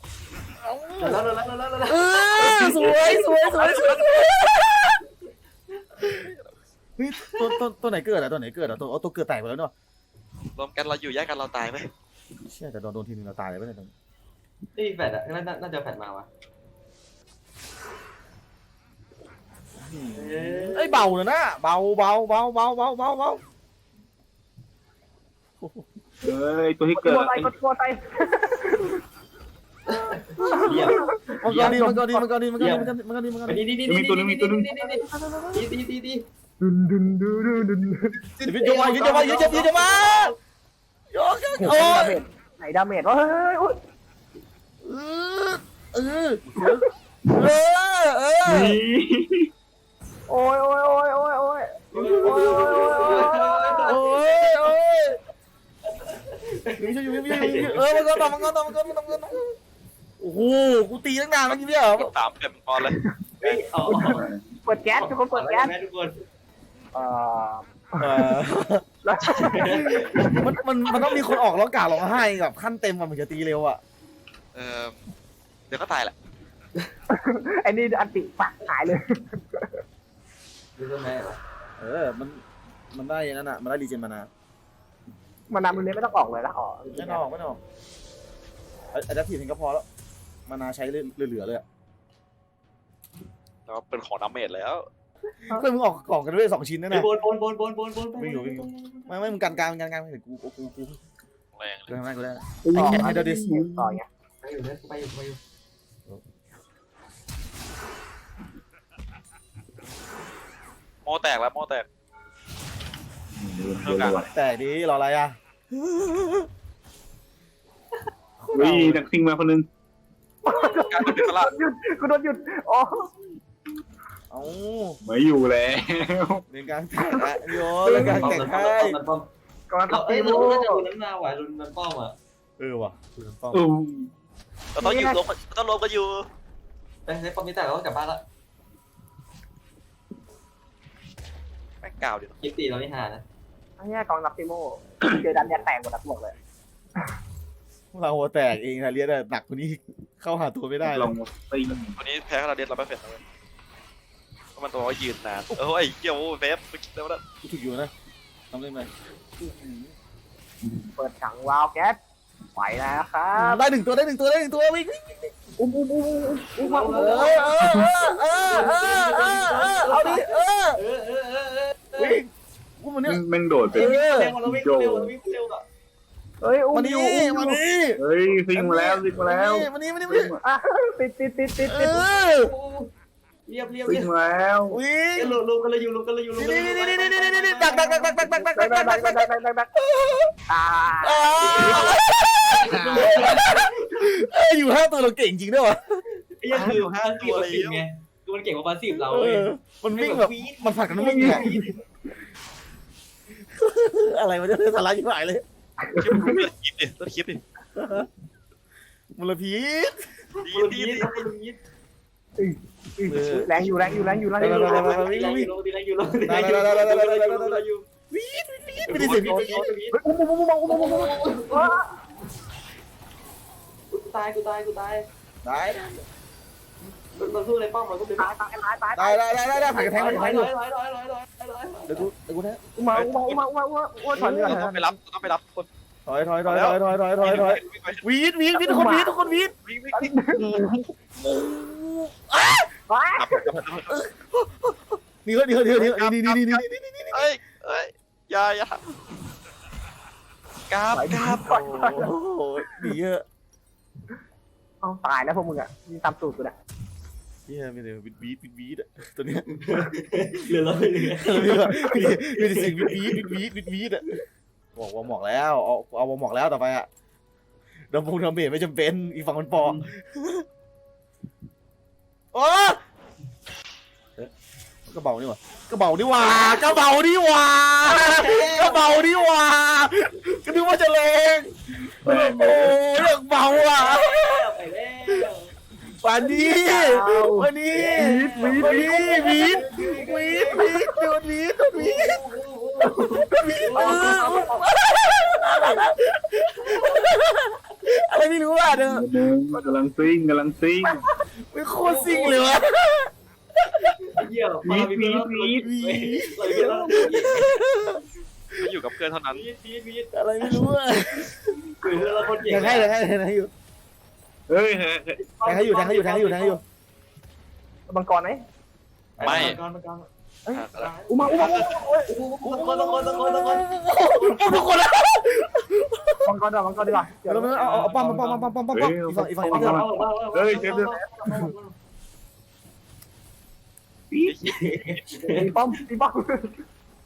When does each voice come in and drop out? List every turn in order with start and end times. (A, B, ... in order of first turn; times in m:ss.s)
0:00.6-0:01.2 A
0:01.0-0:04.0 B
0:01.9-0:05.0 A
0:02.8-0:03.1 C
0:06.1-0:06.4 D
0:07.0-0:09.7 A
0:10.6-0:11.9 D
0:12.4-0:13.9 A
0:14.7-0:16.3 B
0:19.8-0:23.4 A
0:20.1-0:21.1 B
0:25.6-0:25.8 A
0:26.2-0:27.5 E
0:26.9-0:29.0 C
0:29.9-0:31.9 B
0:29.9-0:32.2 C
0:30.4-0:33.6 A
0:32.6-0:32.9 B
0:33.4-0:36.2 B
0:33.8-0:34.7 E
0:35.0-0:35.5 C
0:36.6-0:38.1 C
0:38.2-0:40.4 B
0:38.4-0:40.3 A
0:41.1-0:42.2 A
0:41.6-0:43.8 C
0:44.8-0:48.8 A
0:46.6-0:46.8 C
0:48.4-0:49.5 E
0:50.3-0:54.0 C
0:51.9-0:54.4 B
0:52.0-0:53.0 A
0:53.8-0:55.2 A
0:55.8-0:59.0 B
0:56.8-0:59.5 A
1:00.2-1:02.1 A
1:01.5-1:03.6 D
1:03.4-1:04.3 B
1:03.8-1:04.5 E
1:04.6-1:05.7 C
1:04.9-1:06.2 B
1:06.9-1:08.4 C
1:08.0-1:08.8 A
1:09.0-1:10.4 C
1:09.2-1:10.4 B
1:09.9-1:13.8 A
1:14.5-1:15.0 D
1:15.7-1:16.1 D
1:17.1-1:19.8 C
1:20.8-1:21.4 B
1:21.8-1:24.3 A
1:25.5-1:27.2 C
1:26.9-1:27.6 A
1:28.9-1:29.8 A
1:30.5-1:31.6 A
1:33.7-1:34.8 D
1:35.5-1:37.1 A
1:36.9-1:39.2 B
1:38.2-1:41.0 A
1:41.6-1:41.9 D
1:41.9-1:43.4 A
1:42.6-1:44.0 E
1:42.7-1:44.0 C
1:44.4-1:45.4 B
1:51.0-1:51.8 D
1:53.3-1:54.3 E
1:53.8-1:54.3 D
1:54.3-1:56.5 A
1:58.4-1:59.0 A
1:58.5-1:59.7 E
2:00.4-2:03.1 C
2:00.6-2:01.1 B
2:00.8-2:01.6 D
2:04.3-2:05.0 A
2:05.0-2:06.4 E
2:06.5-2:09.0 A
2:07.2-2:08.4 C
2:07.8-2:09.2 B
2:09.7-2:10.8 C
2:09.9-2:12.1 B
2:12.6-2:13.6 A
2:13.5-2:14.1 E
2:14.7-2:16.2 D
2:14.8-2:15.2 C
2:17.0-2:18.2 B
2:21.8-2:22.4 D
2:22.4-2:23.2 B
2:23.8-2:26.3 C
2:27.9-2:31.1 A
2:30.8-2:31.9 E
2:32.0-2:33.2 D
2:34.6-2:37.2 D
2:37.4-2:37.9 A
2:38.5-2:39.9 A
2:40.6-2:40.9 E
2:41.0-2:42.0 C
2:42.6-2:43.6 C
2:43.3-2:45.3 A
2:45.6-2:47.5 C
2:46.6-2:47.9 B
2:47.0-2:50.8 A
2:47.5-2:47.9 E
2:48.4-2:52.2 B
2:52.0-2:52.3 A
2:52.8-2:53.2 A
2:53.0-2:55.1 E
2:53.7-2:55.6 B
2:53.7-2:54.4 A
2:56.4-2:57.6 C
2:56.7-2:58.0 A
2:58.0-3:00.4 E
2:58.5-3:00.3 A
3:00.4-3:02.0 C
3:01.6-3:02.5 A
3:02.3-3:02.9 B
3:03.5-3:04.1 B
3:03.8-3:04.8 E
3:04.7-3:05.4 A
3:05.1-3:08.4 B
3:06.3-3:10.3 A
3:08.4-3:09.7 C
3:10.5-3:12.0 C
3:11.0-3:16.0 A
3:11.4-3:12.0 B
3:12.6-3:14.2 B
3:12.7-3:13.4 E
3:16.4-3:21.8 B
3:16.5-3:17.8 D
3:19.0-3:21.7 A
3:21.0-3:21.6 C
3:23.4-3:25.4 A
3:25.9-3:26.4 C
3:26.0-3:27.4 D
3:27.7-3:28.1 A
3:29.1-3:30.1 A
3:30.4-3:31.6 B
3:30.4-3:31.2 D
3:32.4-3:35.1 C
3:33.1-3:35.5 A
3:34.4-3:37.8 B
3:36.3-3:39.7 A
3:38.9-3:40.0 B
3:39.9-3:41.9 C
3:40.6-3:41.8 B
3:43.9-3:45.0 B
3:45.4-3:46.0 A
3:47.1-3:48.4 B
3:48.2-3:50.1 C
3:48.9-3:50.5 A
3:49.8-3:52.0 B
3:51.9-3:52.6 A
3:52.8-3:54.9 C
3:52.9-3:53.4 D
3:54.1-3:54.6 A
3:54.2-3:55.7 D
3:56.1-3:59.5 A
3:56.4-3:58.0 D
3:58.5-4:00.5 C
3:59.6-4:00.1 D
4:00.4-4:02.7 A
4:02.9-4:03.3 C
4:03.2-4:03.9 D
4:03.4-4:07.3 A
4:05.8-4:09.0 D
4:10.7-4:12.0 D
4:10.9-4:12.1 C
4:11.8-4:13.2 A
4:14.8-4:16.5 C
4:17.5-4:19.5 A
4:19.5-4:23.3 B
4:21.1-4:24.2 A
4:24.7-4:26.9 A
4:27.9-4:30.4 A
4:32.3-4:32.8 A
4:34.9-4:41.5 A
4:37.8-4:39.2 B
4:41.9-4:42.8 E
4:42.0-4:44.5 A
4:43.6-4:45.5 B
4:46.0-4:52.2 A
4:46.2-4:51.1 B
4:47.9-4:49.3 C
4:51.7-4:55.8 B
4:52.8-4:59.0 A
4:56.6-4:57.0 B
4:58.7-5:01.0 E
5:01.5-5:03.9 A
5:01.8-5:02.6 B
5:03.8-5:07.6 B
5:04.6-5:05.7 E
5:05.6-5:08.0 A
5:08.6-5:09.4 D
5:09.3-5:10.6 B
5:10.1-5:11.6 A
5:11.8-5:12.9 B
5:12.4-5:13.5 A
5:14.5-5:15.2 E
5:15.2-5:16.6 B
5:15.4-5:16.6 A
5:17.9-5:18.4 C
5:19.2-5:20.1 B
5:19.2-5:19.6 D
5:19.3-5:19.5 A
5:20.4-5:22.1 C
5:20.5-5:21.8 D
5:20.7-5:23.7 B
5:22.4-5:26.3 A
5:26.2-5:27.6 C
5:27.2-5:29.8 A
5:27.5-5:28.5 B
5:28.7-5:31.0 E
5:29.4-5:31.8 B
5:34.1-5:34.4 E
5:34.2-5:35.0 D
5:34.4-5:35.5 B
5:35.3-5:36.5 C